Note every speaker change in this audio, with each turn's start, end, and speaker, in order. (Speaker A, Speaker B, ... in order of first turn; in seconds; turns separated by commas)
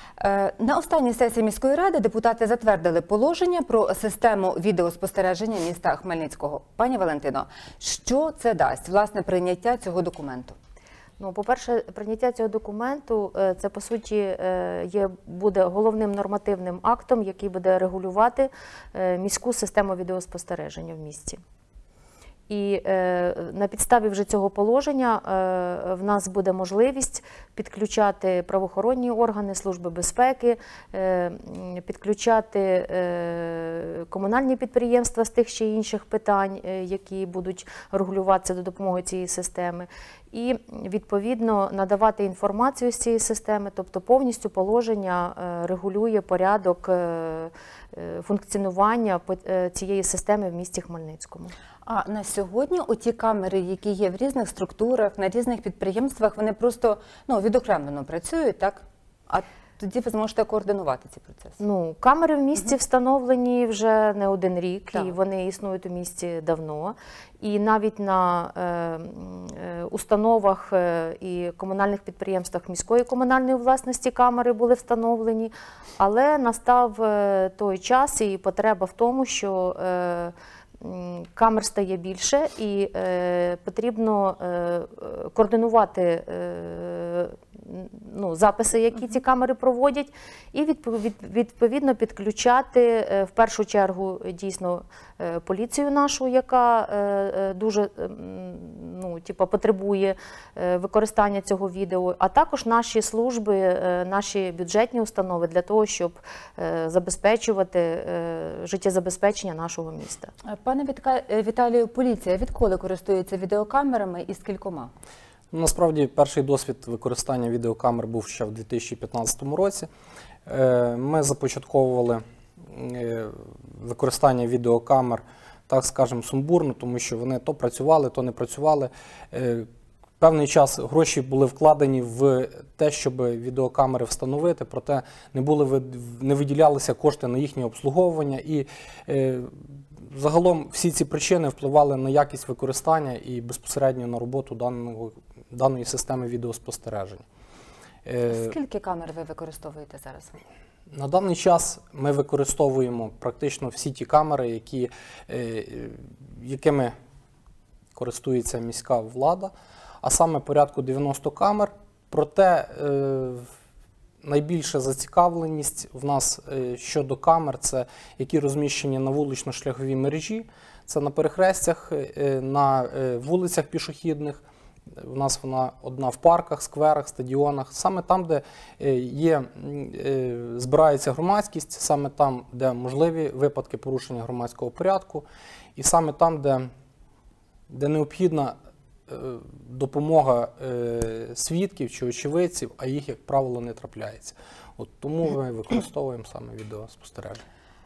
Speaker A: 0.2-10.6, Speaker B: 11.2-21.4, Speaker B: 22.5-51.5, Speaker A: 51.9-61.6, Speaker B: 61.6-110.3, Speaker A: 110.5-114.9, Speaker C: 115.5-119.9, Speaker C: 120.5-129.7, Speaker C: 130.2-147.2, Speaker C: 148.1-148.6, Speaker A: 148.3-150.4, Speaker C: 150.9-156.9, Speaker C: 157.9-163.5, Speaker C: 164.2-174.4, Speaker C: 175.0-186.7, Speaker C: 187.7-188.6, Speaker C: 189.1-197.4